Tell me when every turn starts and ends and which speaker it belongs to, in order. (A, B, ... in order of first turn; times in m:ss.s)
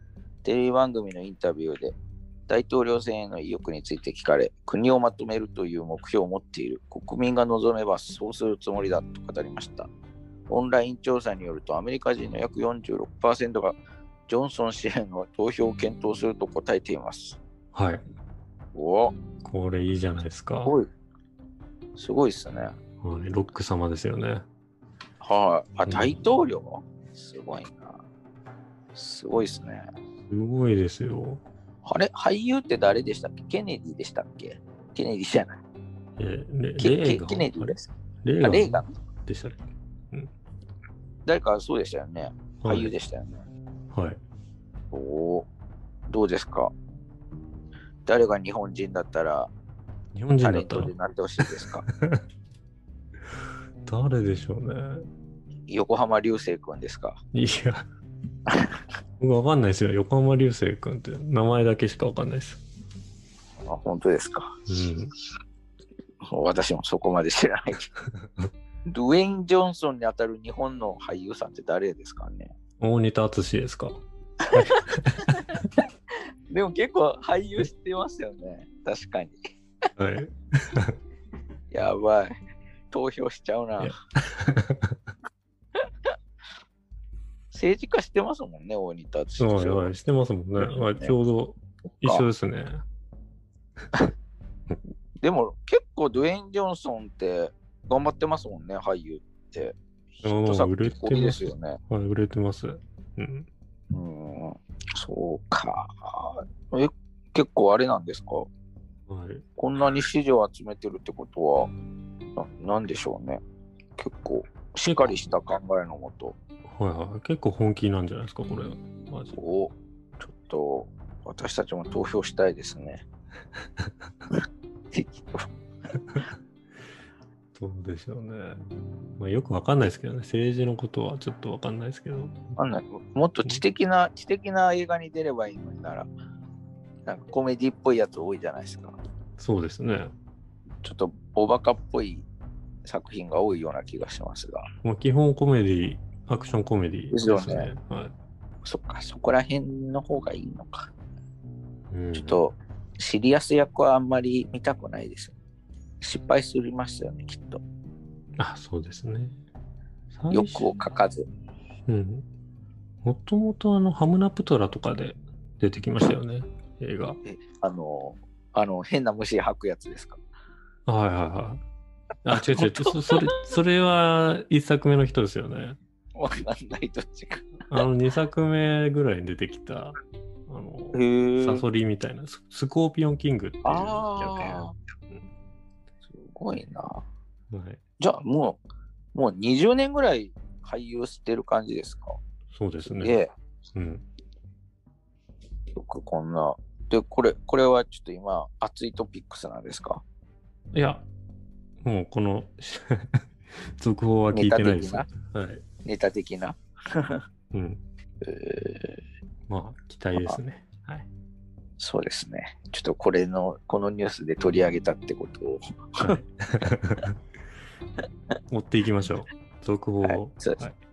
0:00.4-0:02.0 A
0:02.5-0:09.9 A
0:10.5-0:13.8 A
0:14.3-0:17.4 A
0:17.7-0:18.0 B
0:18.7-0:19.2 A
0:19.4-0:20.7 B
0:22.0-0:22.7 A
0:23.0-0:24.4 B
0:25.2-0:28.0 A
0:25.8-0:26.2 B
0:28.9-0:29.8 A
0:30.3-0:31.4 B
0:31.8-0:35.6 A
0:36.2-0:40.3 B
0:36.8-0:38.9 A
0:41.2-0:43.4 A
0:42.6-0:42.9 B
0:43.9-0:44.2 B
0:44.9-0:45.5 A
0:46.1-0:46.7 A
0:48.0-0:49.5 A
0:50.1-0:50.9 B
0:50.4-0:51.8 A
0:51.9-0:52.2 B
0:53.8-0:55.0 B
0:55.7-0:57.2 A
0:57.3-0:57.8 B
0:58.5-0:58.7 A
0:59.2-1:02.6 B
1:03.6-1:04.6 A
1:04.7-1:05.1 B
1:06.3-1:07.9 A
1:08.9-1:12.5 A
1:12.8-1:14.0 B
1:14.5-1:15.6 A
1:14.5-1:15.3 B
1:16.5-1:19.4 A
1:20.0-1:21.0 B
1:21.7-1:22.3 A
1:22.9-1:23.9 A
1:23.8-1:24.9 B
1:27.5-1:29.9 A
1:29.4-1:32.8 B
1:30.6-1:31.1 A
1:32.0-1:32.3 A
1:35.2-1:41.8 A
1:40.2-1:43.5 B
1:43.9-1:48.5 A
1:49.1-1:49.4 B
1:49.6-1:51.7 A
1:52.4-1:53.4 A
1:54.0-1:56.4 A
1:54.8-1:55.2 B
1:56.7-1:59.4 B
1:59.3-2:03.0 A
2:04.9-2:05.5 A
2:07.6-2:08.6 B
2:09.2-2:12.4 B
2:12.6-2:16.1 A
2:17.0-2:19.0 A
2:19.4-2:20.1 B
2:20.8-2:22.2 A
2:22.8-2:24.6 A
2:24.8-2:28.1 B
2:27.1-2:27.7 A
2:28.6-2:30.9 A
2:31.9-2:32.4 B
2:32.1-2:35.3 A
2:36.0-2:37.6 A
2:38.4-2:39.4 B
2:40.1-2:40.8 B
2:40.3-2:41.2 A
2:41.9-2:42.2 B
2:43.0-2:47.2 B
2:47.2-2:50.2 A
2:50.8-2:51.6 B
2:52.2-2:55.8 B
2:52.4-2:53.2 A
2:56.2-2:57.6 A
2:57.7-3:05.2 B
3:00.9-3:01.6 A
3:03.6-3:04.7 A
3:06.0-3:07.0 A
3:07.5-3:07.8 B
3:08.0-3:08.6 A
3:09.1-3:12.2 A
3:12.5-3:13.2 B
3:12.8-3:13.3 A
3:13.7-3:14.0 B
3:15.7-3:20.0 A
3:20.7-3:21.0 B
3:21.8-3:23.2 B
3:23.8-3:25.6 B
3:24.3-3:25.1 A
3:25.8-3:27.2 A
3:27.5-3:27.8 B
3:28.2-3:29.0 A
3:29.5-3:31.1 B
3:31.8-3:36.2 A
3:36.0-3:37.1 B
3:38.5-3:40.8 B
3:40.0-3:40.6 A